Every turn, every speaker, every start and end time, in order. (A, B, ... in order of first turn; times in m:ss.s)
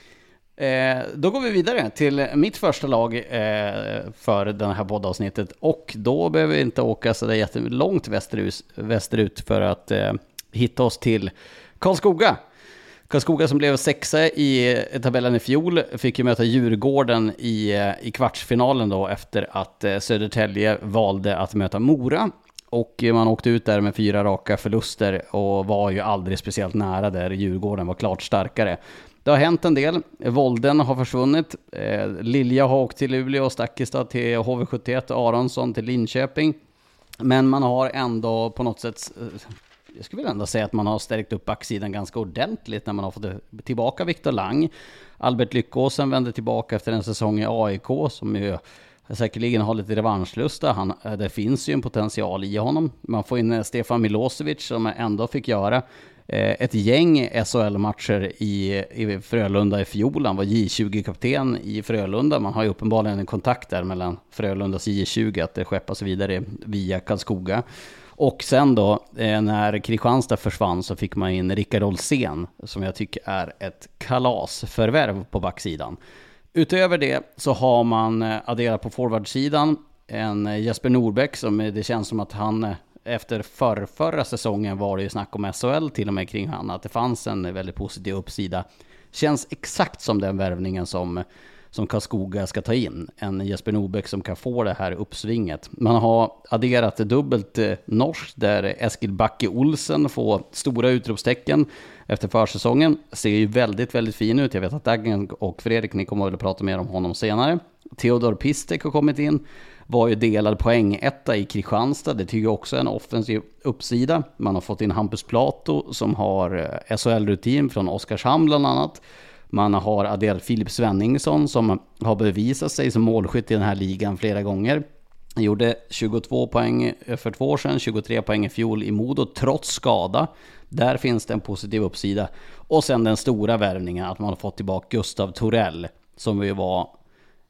0:00.6-0:12.4 A
0:13.1-0:36.6 A
0:37.2-1:07.6 A
1:08.2-1:16.0 A
1:16.5-2:04.8 A
2:05.4-2:16.9 A